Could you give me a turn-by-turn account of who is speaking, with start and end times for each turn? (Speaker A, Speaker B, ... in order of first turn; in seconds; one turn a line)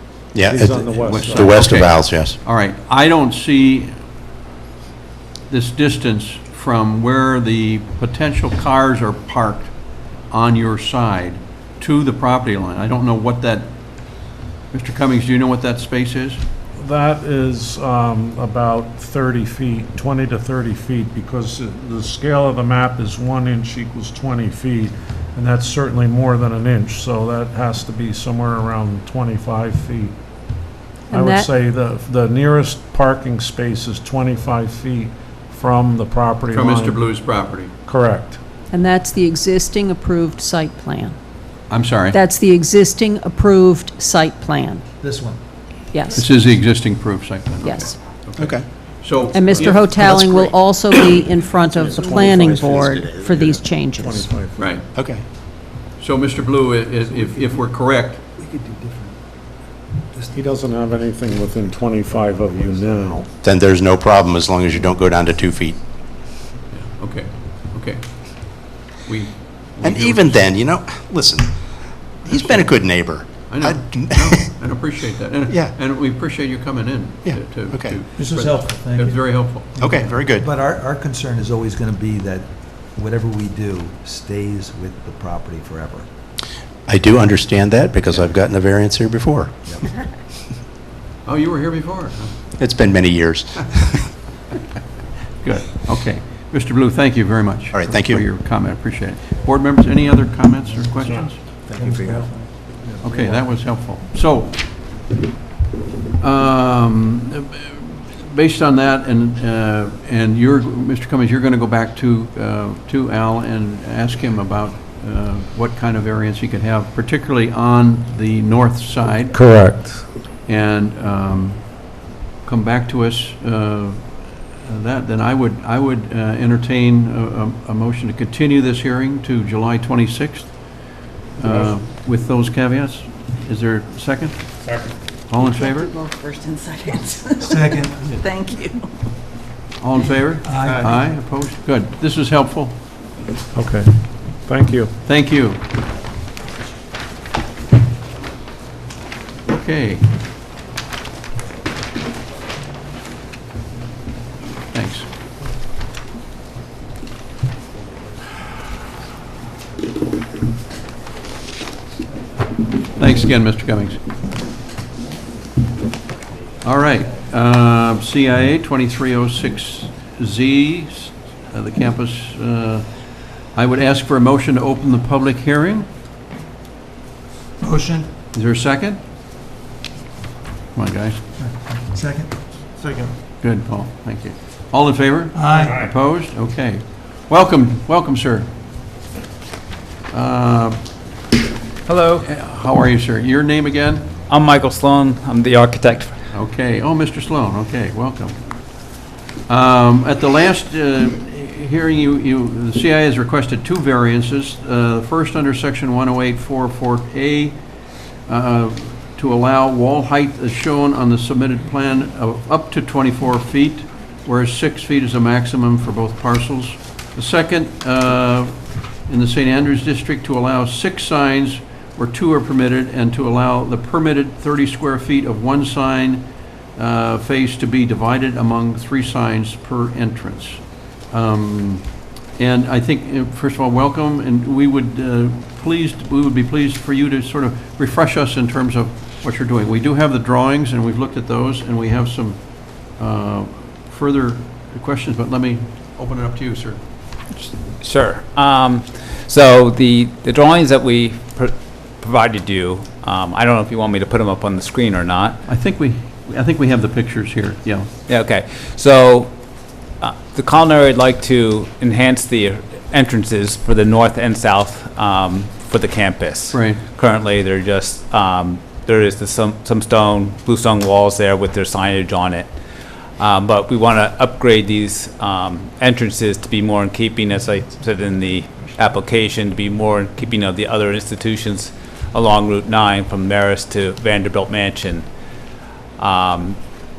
Speaker A: 0.3-2.4
Speaker B: 0.4-1.5
Speaker C: 1.0-4.0
Speaker C: 5.5-16.4
Speaker B: 16.8-30.1
Speaker D: 31.1-31.5
Speaker B: 31.1-37.1
Speaker C: 36.5-37.7
Speaker B: 37.9-38.6
Speaker D: 38.7-41.2
Speaker C: 41.7-42.2
Speaker D: 42.1-44.8
Speaker E: 45.0-45.4
Speaker D: 45.9-46.3
Speaker C: 46.1-49.8
Speaker D: 47.6-48.0
Speaker A: 48.4-48.7
Speaker D: 49.3-54.3
Speaker A: 49.5-50.9
Speaker B: 51.7-52.8
Speaker A: 51.8-53.4
Speaker B: 53.3-54.9
Speaker C: 54.6-54.8
Speaker A: 54.9-55.2
Speaker C: 56.0-58.2
Speaker E: 57.2-57.6
Speaker E: 58.4-59.2
Speaker E: 60.1-60.6
Speaker B: 60.3-63.3
Speaker E: 62.1-63.2
Speaker A: 63.4-65.8
Speaker C: 66.7-70.5
Speaker A: 69.8-71.6
Speaker A: 72.2-74.5
Speaker C: 73.5-79.7
Speaker A: 77.2-78.0
Speaker E: 78.2-86.1
Speaker A: 79.8-80.5
Speaker A: 86.9-89.7
Speaker C: 91.2-92.3
Speaker A: 92.6-94.0
Speaker C: 95.4-101.4
Speaker A: 97.7-98.2
Speaker E: 101.7-103.4
Speaker C: 103.0-104.8
Speaker C: 106.2-119.3
Speaker B: 119.3-120.0
Speaker C: 120.5-121.9
Speaker C: 122.4-135.9
Speaker F: 135.4-138.9
Speaker E: 137.4-138.1
Speaker C: 139.8-142.8
Speaker E: 140.4-141.0
Speaker B: 143.5-144.9
Speaker C: 145.0-145.6
Speaker C: 149.4-150.1
Speaker C: 154.7-155.1
Speaker C: 162.9-164.0
Speaker C: 166.6-175.9
Speaker E: 177.6-178.1
Speaker C: 178.3-179.0
Speaker C: 180.7-181.2
Speaker E: 181.4-182.6
Speaker C: 183.4-188.6
Speaker E: 185.3-185.8
Speaker C: 190.1-191.0
Speaker G: 191.8-192.3
Speaker C: 192.2-194.1
Speaker G: 194.3-196.2
Speaker C: 196.3-246.8
Speaker G: 247.3-255.4
Speaker C: 255.4-257.9
Speaker G: 258.1-259.4
Speaker G: 259.9-272.5
Speaker C: 266.5-266.8
Speaker G: 273.2-285.1
Speaker G: 286.0-286.6